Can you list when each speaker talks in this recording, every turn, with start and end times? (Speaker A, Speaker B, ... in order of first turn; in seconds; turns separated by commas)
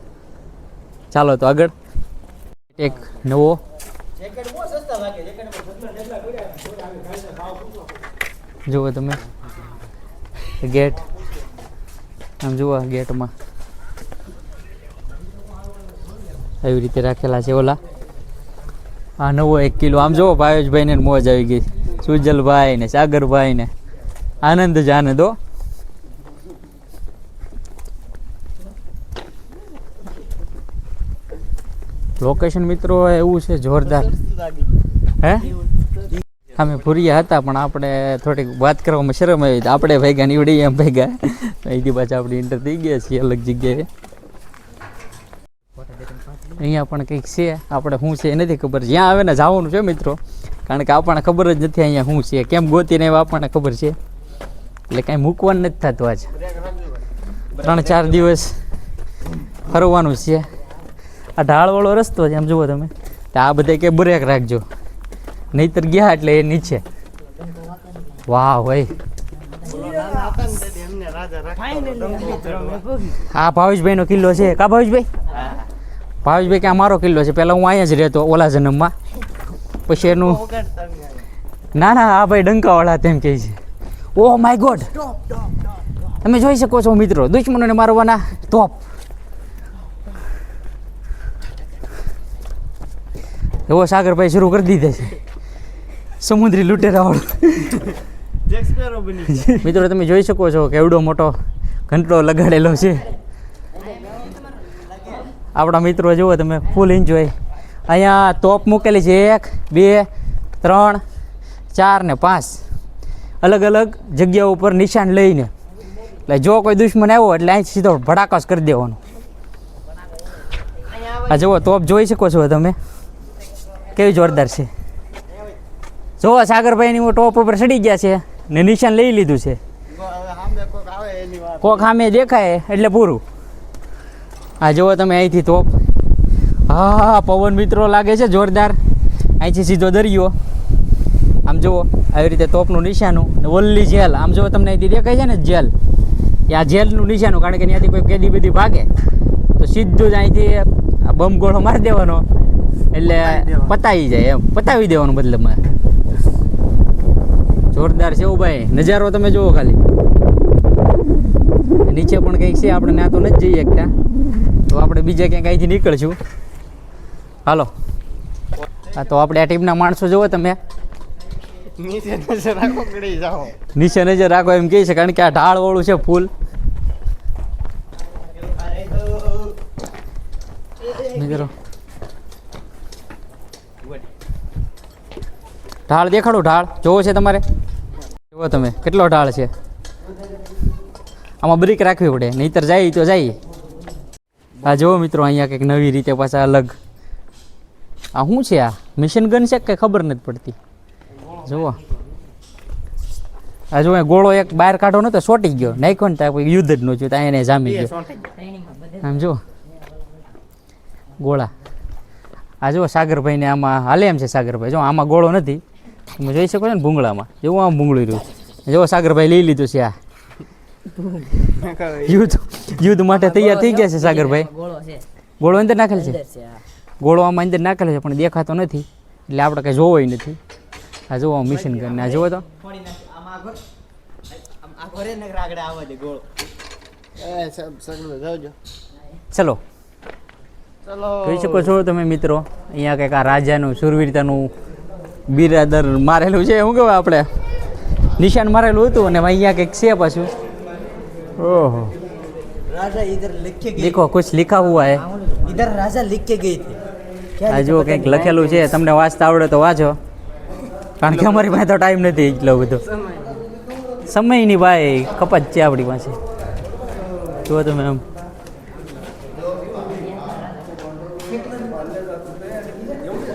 Speaker A: 1.1-1.7, Speaker A: 2.7-3.6, Speaker B: 4.4-5.8, Speaker A: 8.7-9.2, Speaker A: 10.6-11.0, Speaker A: 12.4-13.3, Speaker A: 16.6-17.8, Speaker A: 19.2-23.7, Speaker A: 24.4-25.4, Speaker A: 32.2-34.2, Speaker C: 34.2-34.7, Speaker A: 35.2-35.6, Speaker A: 36.5-43.9, Speaker A: 46.5-54.0, Speaker A: 54.9-56.4, Speaker A: 57.5-58.6, Speaker A: 59.6-60.5, Speaker A: 61.4-64.6, Speaker A: 65.5-66.8, Speaker A: 68.3-68.9, Speaker C: 69.6-72.9, Speaker B: 71.7-73.1, Speaker A: 73.1-75.1, Speaker A: 76.2-78.9, Speaker A: 79.9-80.5, Speaker C: 80.1-81.2, Speaker A: 81.7-83.6, Speaker A: 84.1-85.0, Speaker A: 86.2-88.8, Speaker A: 93.7-95.2, Speaker A: 96.2-98.0, Speaker C: 98.5-99.5, Speaker A: 99.4-101.3, Speaker A: 101.9-103.1, Speaker A: 105.5-107.3, Speaker A: 107.9-110.1, Speaker A: 110.6-111.0, Speaker A: 111.7-112.6, Speaker A: 113.4-115.5, Speaker A: 116.2-119.0, Speaker A: 121.0-122.8, Speaker A: 123.9-124.7, Speaker A: 126.2-129.6, Speaker C: 129.9-131.8, Speaker A: 131.6-133.2, Speaker A: 134.6-135.7, Speaker A: 136.7-138.8, Speaker A: 139.4-140.3, Speaker A: 141.4-145.7, Speaker A: 146.5-148.9, Speaker A: 149.6-152.2, Speaker A: 152.9-155.6, Speaker C: 153.3-153.7, Speaker A: 157.7-159.8, Speaker A: 161.8-163.9, Speaker A: 164.7-166.2, Speaker A: 167.4-167.7, Speaker A: 168.8-170.6, Speaker C: 171.6-173.6, Speaker A: 173.7-176.3, Speaker A: 180.8-181.5, Speaker A: 185.9-187.4, Speaker A: 188.3-189.5, Speaker A: 191.4-193.4, Speaker A: 194.6-196.7, Speaker A: 198.1-200.6, Speaker A: 201.3-201.8, Speaker A: 203.7-207.9, Speaker C: 207.8-208.3, Speaker A: 208.9-209.4, Speaker A: 211.2-211.5, Speaker A: 212.6-219.9, Speaker C: 221.3-222.6, Speaker A: 222.0-224.5, Speaker B: 223.5-225.0, Speaker A: 225.4-226.2, Speaker B: 226.2-226.6, Speaker A: 227.0-230.4, Speaker A: 231.1-232.4, Speaker B: 232.6-233.6, Speaker B: 234.5-236.3, Speaker C: 237.2-238.6, Speaker A: 239.3-239.6, Speaker C: 240.8-241.7, Speaker A: 241.2-244.5, Speaker A: 245.3-247.3, Speaker A: 248.2-250.3, Speaker A: 251.4-251.9, Speaker B: 252.7-253.9, Speaker A: 253.7-255.1, Speaker B: 255.1-256.8, Speaker B: 257.4-258.6, Speaker A: 257.4-260.0, Speaker A: 261.0-262.9, Speaker A: 264.1-266.2, Speaker A: 267.4-268.0